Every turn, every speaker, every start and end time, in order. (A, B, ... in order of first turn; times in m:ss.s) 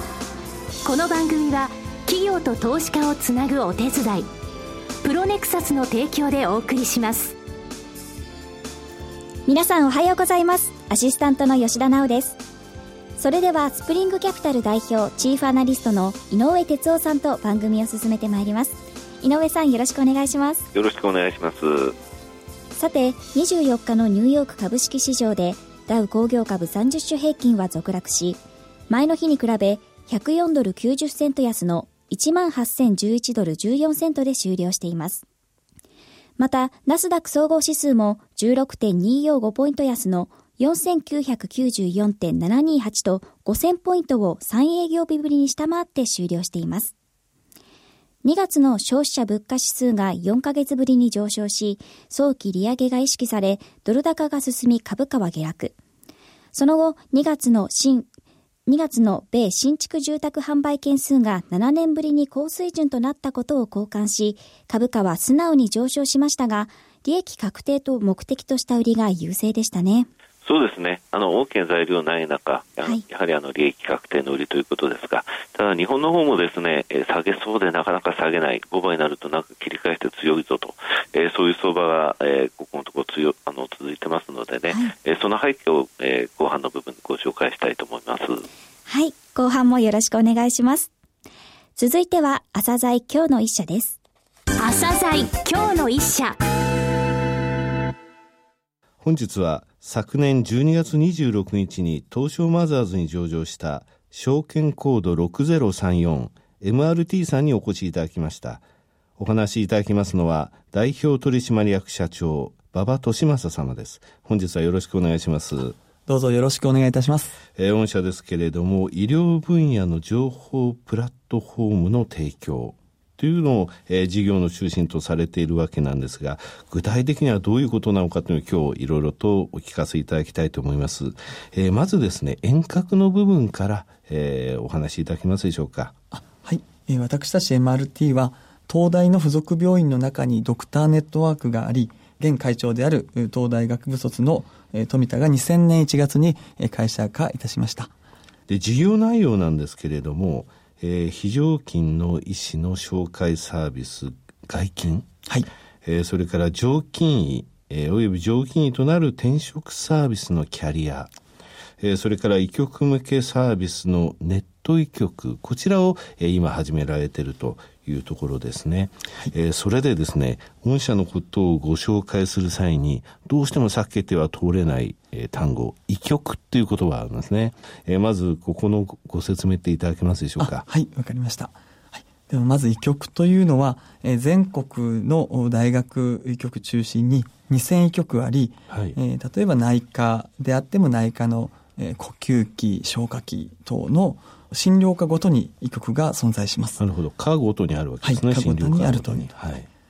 0:00.8-0:04.3 A
0:05.0-0:07.4 A
0:09.4-0:12.4 B
0:13.2-0:20.7 B
0:20.7-0:22.0 C
0:22.7-0:35.2 B
0:36.4-0:46.9 B
0:48.2-0:55.7 B
0:56.5-0:58.1 B
0:58.7-1:10.1 B
1:10.4-1:28.4 C
1:28.8-1:30.9 B
1:31.7-1:34.0 B
1:34.6-1:36.4 A
1:39.0-1:48.6 D
1:49.2-1:55.8 D
1:56.0-1:57.4 E
1:57.6-2:15.9 D
2:16.1-2:27.9 E
2:28.5-2:35.1 D
2:35.8-2:41.1 D
2:41.8-3:00.6 D
3:00.4-3:16.8 E
3:08.7-3:09.0 D
3:16.8-3:19.7 D
3:18.0-3:19.3 E